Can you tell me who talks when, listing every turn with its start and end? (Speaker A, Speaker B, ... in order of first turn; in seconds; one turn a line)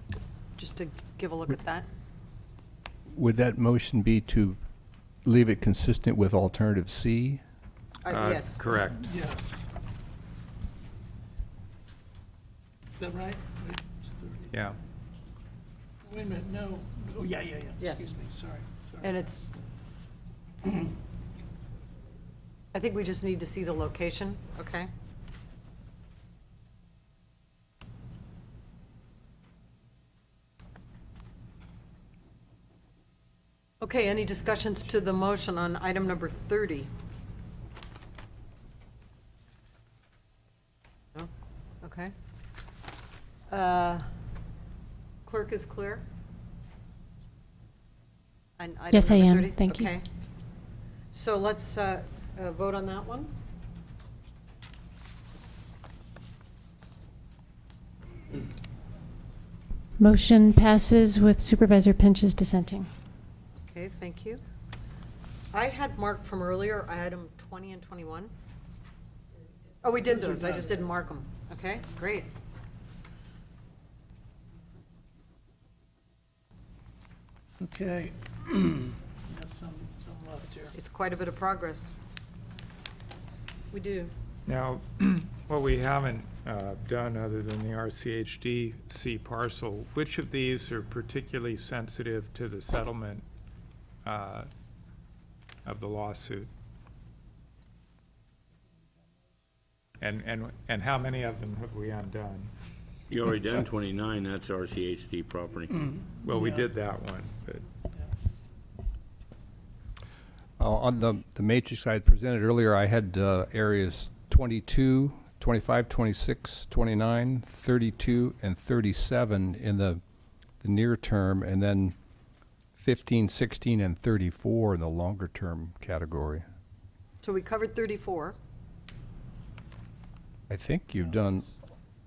Speaker A: 0.6-1.9
Speaker B: 3.1-4.6
Speaker B: 5.2-7.4
Speaker A: 8.0-8.7
Speaker C: 8.1-9.1
Speaker D: 9.0-9.7
Speaker D: 12.9-14.5
Speaker C: 14.5-14.8
Speaker D: 16.0-19.2
Speaker A: 17.8-18.1
Speaker A: 19.0-19.5
Speaker A: 22.7-24.9
Speaker A: 33.8-36.9
Speaker A: 41.8-42.1
Speaker A: 43.5-44.1
Speaker A: 45.2-46.0
Speaker A: 48.6-50.1
Speaker E: 48.9-49.9
Speaker A: 51.1-53.3
Speaker E: 60.0-62.9
Speaker A: 63.7-64.4
Speaker A: 65.5-68.3
Speaker A: 69.8-72.3
Speaker D: 70.1-70.8
Speaker D: 77.6-80.7
Speaker A: 80.8-81.9
Speaker A: 83.7-84.1
Speaker C: 84.5-93.2
Speaker C: 94.0-94.5
Speaker C: 95.7-96.5
Speaker C: 100.0-102.5
Speaker F: 103.1-105.7
Speaker D: 105.8-106.7
Speaker C: 106.2-107.7
Speaker B: 110.6-120.0
Speaker B: 120.6-122.0
Speaker B: 122.8-126.5
Speaker A: 127.2-128.4
Speaker B: 130.5-131.5